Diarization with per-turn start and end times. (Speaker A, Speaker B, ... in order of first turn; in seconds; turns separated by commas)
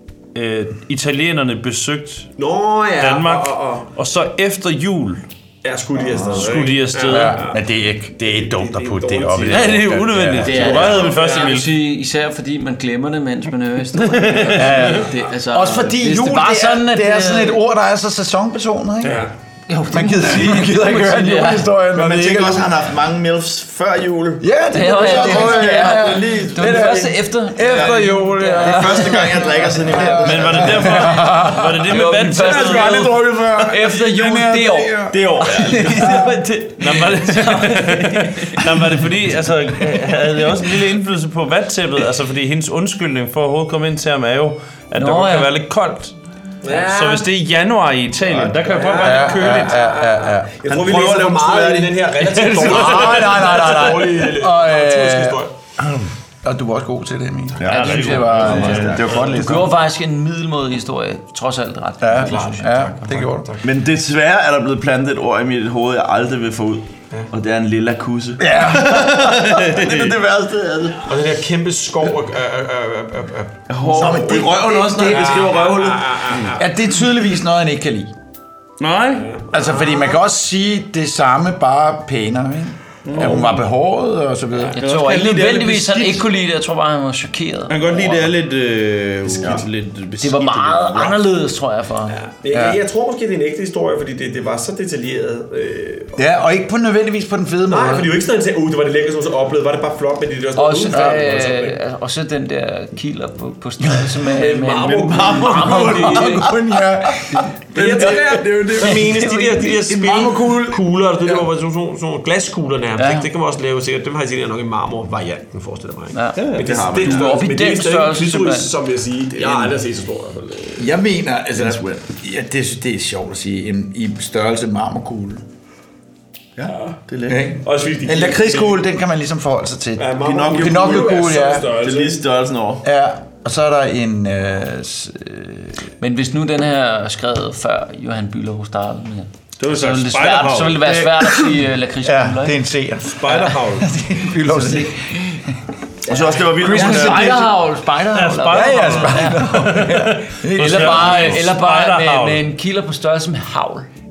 Speaker A: 0.3-2.3, Speaker B: 2.4-3.9, Speaker A: 3.0-5.2, Speaker B: 5.6-9.9, Speaker A: 6.1-7.5, Speaker C: 7.1-11.1, Speaker A: 9.5-11.7, Speaker D: 10.4-17.6, Speaker B: 10.5-11.5, Speaker A: 14.0-14.8, Speaker C: 14.5-19.2, Speaker B: 19.0-19.3, Speaker D: 19.7-21.8, Speaker C: 19.9-22.7, Speaker E: 21.9-31.0, Speaker C: 24.4-29.2, Speaker D: 24.7-29.8, Speaker C: 29.9-36.3, Speaker A: 30.2-33.3, Speaker D: 30.9-38.6, Speaker E: 35.1-36.5, Speaker A: 36.6-49.8, Speaker D: 45.0-45.6, Speaker B: 46.6-47.3, Speaker B: 48.2-55.5, Speaker C: 49.0-51.8, Speaker E: 50.7-52.0, Speaker A: 52.2-53.1, Speaker C: 52.3-55.4, Speaker C: 56.4-59.8, Speaker B: 57.5-59.2, Speaker D: 57.6-62.8, Speaker A: 57.7-59.3, Speaker E: 58.4-59.3, Speaker C: 62.0-63.5, Speaker B: 62.1-63.7, Speaker E: 63.6-71.0, Speaker C: 68.4-69.4, Speaker A: 69.5-70.1, Speaker B: 71.0-77.2, Speaker E: 73.7-76.5, Speaker C: 73.8-75.7, Speaker C: 76.6-78.1, Speaker A: 78.8-79.3, Speaker B: 79.1-80.2, Speaker C: 79.5-84.8, Speaker A: 83.0-83.6, Speaker D: 84.7-87.8, Speaker A: 84.8-85.7, Speaker E: 87.7-89.8, Speaker A: 88.0-88.3, Speaker A: 89.4-91.1, Speaker D: 90.2-92.2, Speaker B: 92.1-96.2, Speaker C: 92.5-92.8, Speaker C: 96.2-98.1, Speaker B: 97.7-101.8, Speaker D: 100.5-106.5, Speaker C: 100.9-101.4, Speaker C: 103.9-111.5, Speaker B: 104.4-106.5, Speaker D: 107.2-109.8, Speaker B: 107.7-120.9, Speaker D: 113.0-113.3, Speaker D: 116.1-118.7, Speaker E: 116.4-117.4, Speaker D: 119.4-119.7, Speaker C: 120.8-125.4, Speaker E: 126.6-127.5, Speaker B: 126.6-128.9, Speaker C: 127.3-131.8, Speaker B: 130.0-132.2, Speaker E: 130.2-132.8, Speaker C: 132.8-135.9, Speaker D: 136.0-142.7, Speaker A: 139.6-141.0, Speaker C: 140.7-145.5, Speaker A: 143.4-143.8, Speaker E: 146.1-147.6, Speaker D: 146.1-149.6, Speaker C: 146.6-151.4, Speaker A: 146.8-147.2, Speaker A: 148.1-152.4, Speaker D: 150.6-153.9